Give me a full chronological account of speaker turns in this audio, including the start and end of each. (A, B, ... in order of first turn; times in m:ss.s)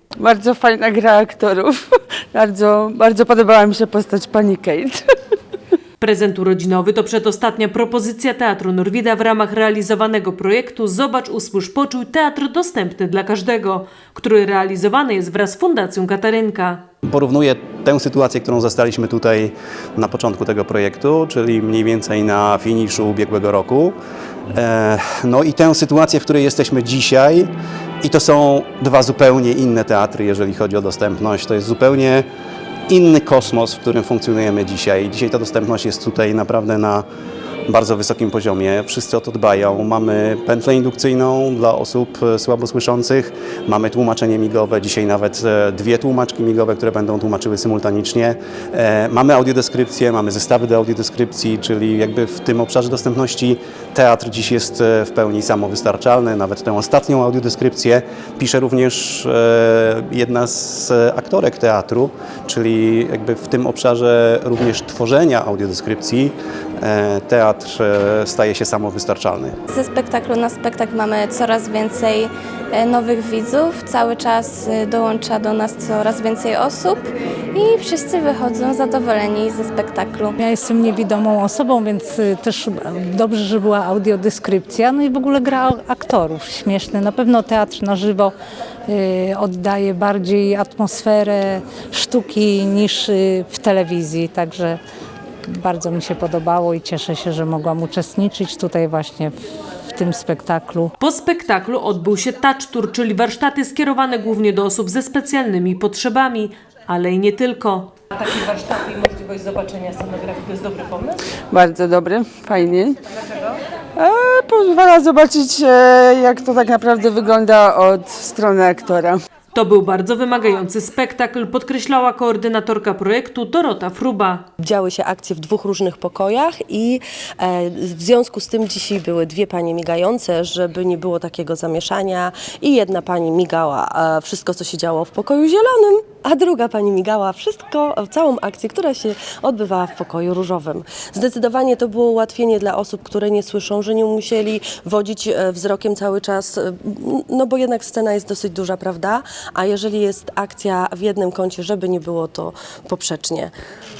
0:00.2-0:05.0 A
0:06.0-0:16.8 B
0:17.1-0:23.9 C
0:24.5-0:27.5 C
0:28.0-0:32.2 C
0:32.9-0:37.0 C
0:37.7-1:09.6 C
1:09.7-1:20.4 D
1:20.4-1:28.3 E
1:28.9-1:34.8 E
1:35.5-1:39.3 E
1:40.0-1:40.9 E
1:41.0-1:51.2 B
1:51.5-1:53.0 A
1:54.0-1:59.2 A
1:59.5-2:04.5 B
2:04.6-2:33.5 F